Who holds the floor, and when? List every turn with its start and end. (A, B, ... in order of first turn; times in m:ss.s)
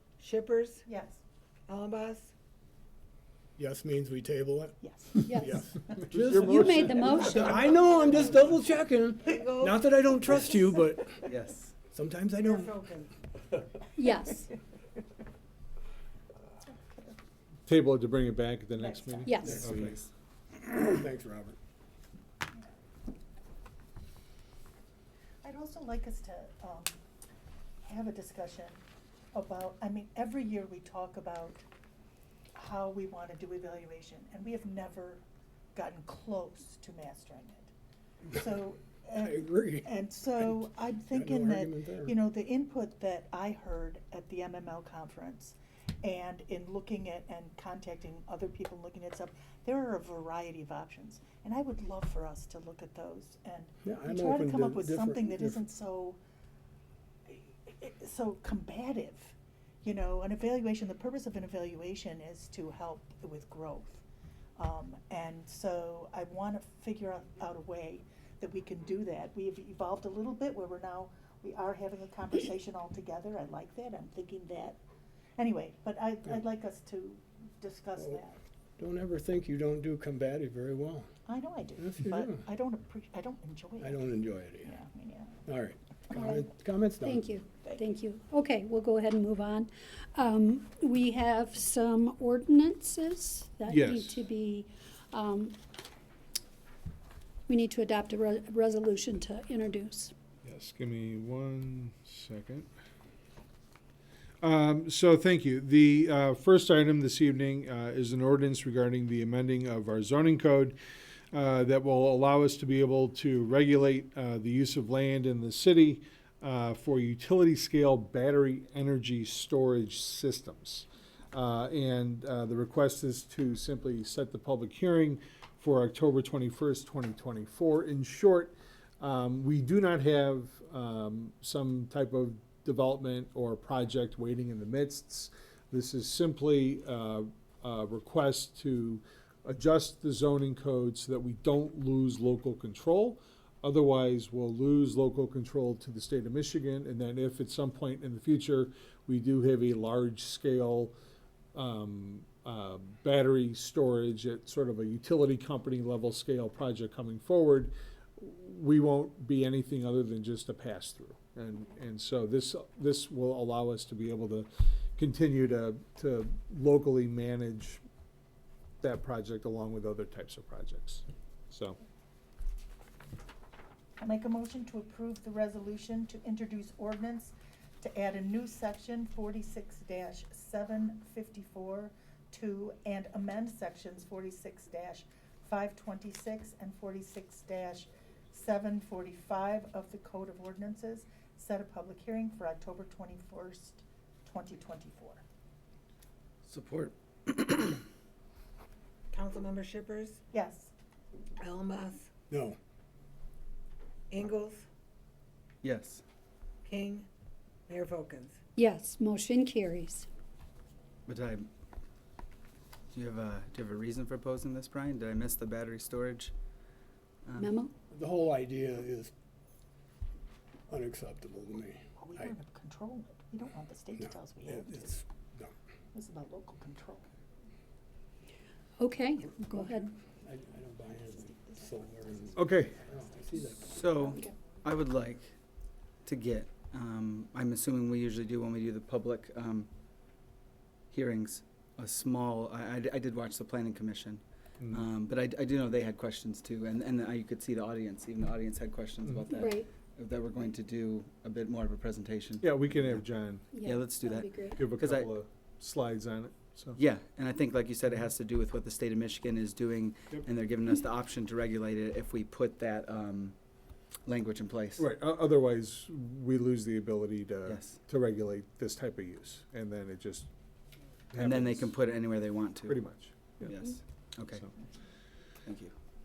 0:00.2-0:00.8 A
0:00.8-0:01.2 B
0:01.7-0:02.3 A
0:03.6-0:11.2 C
0:04.8-0:06.0 B
0:05.2-0:07.7 D
0:07.7-0:08.1 A
0:09.3-0:10.8 A
0:11.2-0:11.7 E
0:11.9-0:12.8 C
0:12.4-0:13.1 A
0:14.0-0:14.5 D
0:16.7-0:17.2 B
0:17.7-0:20.0 F
0:18.8-0:19.6 B
0:19.2-0:19.7 D
0:19.5-0:19.9 C
0:19.5-0:20.0 E
0:20.6-0:21.6 C
0:25.4-0:27.0 B
0:27.9-0:31.6 B
0:32.5-0:37.7 B
0:38.3-0:56.2 B
0:39.2-0:42.2 C
0:53.8-0:55.7 C
0:57.3-1:04.0 B
1:04.6-1:14.8 B
1:15.4-1:18.4 B
1:18.0-1:18.2 C
1:18.8-1:21.1 C
1:21.3-1:24.1 B
1:21.8-1:22.4 C
1:23.8-1:24.8 C
1:24.6-1:25.4 B
1:25.5-1:27.2 C
1:26.1-1:35.6 D
1:33.7-1:34.2 F
1:37.5-1:40.1 D
1:40.4-1:42.7 F
1:44.4-1:50.8 F
1:51.3-2:31.0 F
2:31.5-2:47.8 F
2:48.8-2:51.8 F
2:54.0-3:15.2 B
3:16.5-3:17.8 E
3:19.1-3:20.2 A
3:20.3-3:20.7 B
3:21.4-3:22.1 A
3:22.3-3:22.6 C
3:24.1-3:24.7 A
3:25.6-3:26.0 E
3:26.6-3:27.1 A
3:27.7-3:28.4 A
3:28.6-3:30.1 D
3:31.1-3:31.5 E
3:32.9-3:36.3 E
3:37.3-3:37.5 E
3:37.4-3:37.7 D
3:37.9-3:39.1 C
3:40.7-3:42.3 C
3:42.0-3:45.0 B
3:44.0-3:45.5 C
3:45.9-3:47.1 B
3:48.8-3:49.9 D
3:49.6-3:53.8 C
3:52.4-3:52.8 F
3:53.6-3:55.3 E
3:54.0-3:54.3 B
3:56.0-3:59.7 E
4:00.9-4:13.0 E
4:09.3-4:09.7 D
4:12.4-4:13.4 F
4:13.5-4:14.6 D
4:13.6-4:15.2 E
4:14.6-4:16.8 F
4:16.8-4:23.4 E
4:24.1-4:24.8 E
4:24.8-4:30.3 F
4:27.5-4:27.8 E
4:31.1-4:31.7 F
4:31.2-4:32.8 E
4:32.6-4:33.6 F
4:33.4-4:34.4 E
4:35.5-4:35.7 E